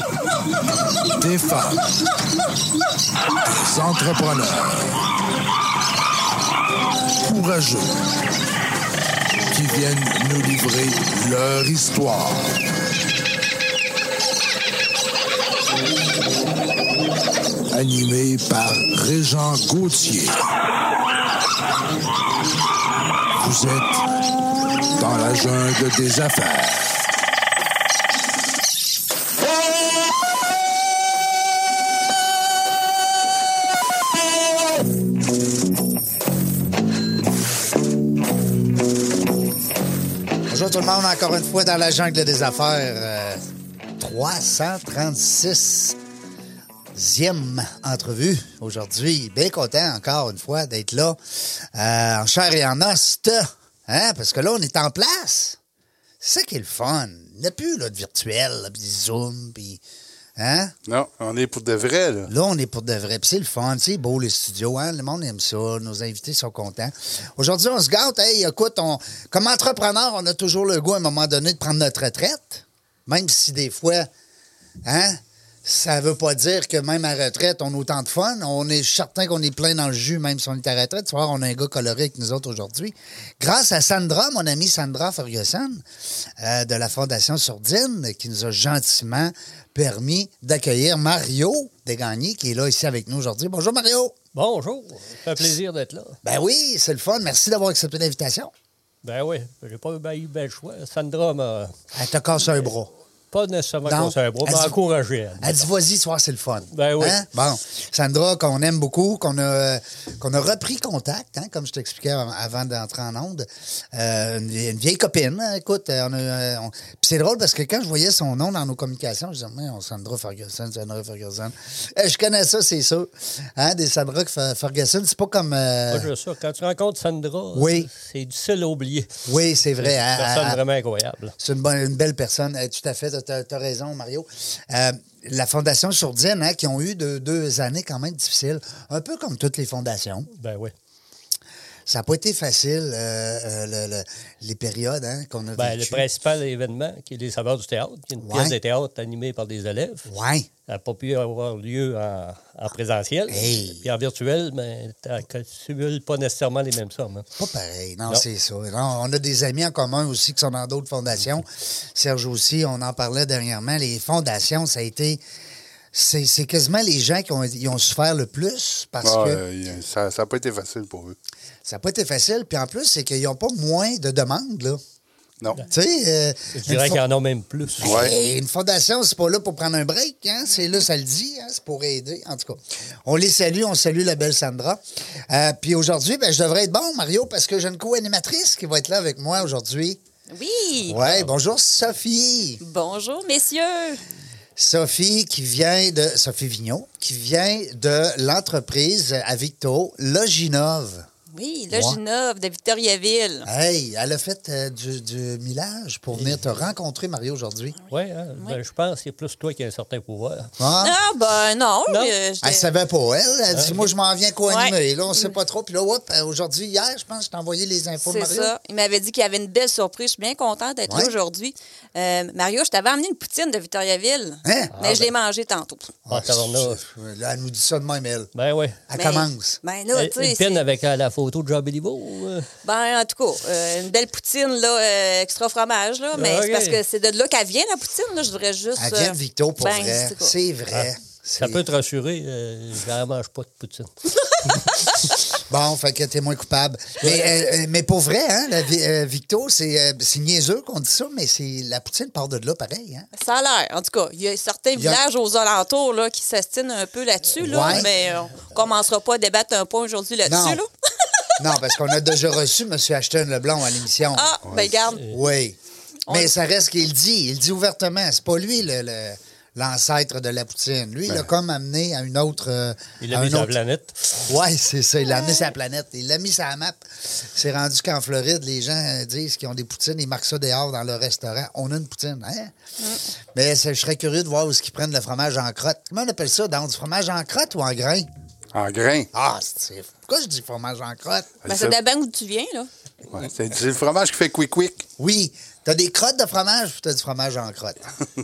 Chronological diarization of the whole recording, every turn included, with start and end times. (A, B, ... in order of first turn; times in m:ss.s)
0:01.2-0:01.9 A
0:03.6-0:05.0 A
0:07.2-0:08.0 A
0:09.5-0:12.5 A
0:17.7-0:20.4 A
0:23.4-0:24.0 A
0:25.0-0:27.1 A
0:40.5-0:43.4 B
0:44.0-0:46.0 B
0:46.9-0:55.6 B
0:56.2-0:59.8 B
1:00.4-1:00.7 B
1:00.9-1:02.3 C
1:02.3-1:14.1 B
1:14.8-1:25.8 B
1:26.4-1:34.2 B
1:34.3-1:36.2 D
1:36.2-1:38.5 B
1:39.0-1:41.8 D
1:41.9-1:42.9 B
1:43.3-1:45.7 D
1:43.8-1:44.8 B
1:45.4-2:06.1 B
1:46.7-1:47.2 D
2:05.9-2:09.2 D
2:07.5-2:07.9 B
2:09.3-2:10.6 B
2:09.8-2:11.4 D
2:11.4-2:20.3 B
2:20.3-2:20.7 D
2:21.9-2:26.0 B
2:25.6-2:30.1 D
2:28.2-2:28.6 B
2:30.1-2:30.5 B
2:30.7-2:37.2 D
2:33.3-2:33.9 B
2:37.4-2:45.2 B
2:45.9-2:49.4 B
2:49.0-2:51.2 C
2:51.6-2:54.8 B
2:55.7-2:57.0 B
2:56.5-2:58.1 D
2:57.8-3:10.0 B
2:57.8-2:58.1 C
3:10.3-3:11.0 E
3:10.9-3:12.6 B
3:12.6-3:14.0 E
3:14.6-3:21.1 B
3:21.3-3:23.5 E
3:21.7-3:22.0 B
3:23.4-3:27.8 B
3:26.2-3:26.4 D
3:27.9-3:30.5 D
3:30.6-3:31.0 B
3:30.8-3:32.7 E
3:31.9-3:32.1 D
3:32.4-3:38.5 B
3:33.5-3:33.9 D
3:34.5-3:34.8 E
3:38.0-3:45.9 E
3:40.9-3:41.1 B
3:44.4-3:44.7 B
3:44.7-3:45.1 D
3:46.1-3:48.3 B
3:46.1-3:46.8 D
3:48.4-3:48.8 D
3:48.9-3:49.6 B
3:48.9-3:50.6 E
3:49.9-3:52.5 D
3:52.6-4:00.3 E
3:56.2-3:56.8 D
3:58.8-4:01.6 B
4:00.7-4:04.1 D
4:05.4-4:13.1 B
4:07.0-4:07.3 D
4:13.1-4:20.7 E
4:14.8-4:15.0 B
4:17.4-4:17.9 B
4:20.3-4:20.6 B
4:21.4-4:24.4 B
4:24.1-4:25.1 E
4:25.1-4:25.6 B
4:26.1-4:26.3 E
4:26.1-4:33.5 B
4:33.0-4:34.0 D
4:34.1-4:42.5 B
4:43.4-4:48.1 B
4:48.5-4:49.1 C
4:49.1-4:51.3 B
4:51.4-4:51.8 C
4:51.5-4:52.7 E
4:53.1-4:54.9 C
4:55.0-4:57.9 B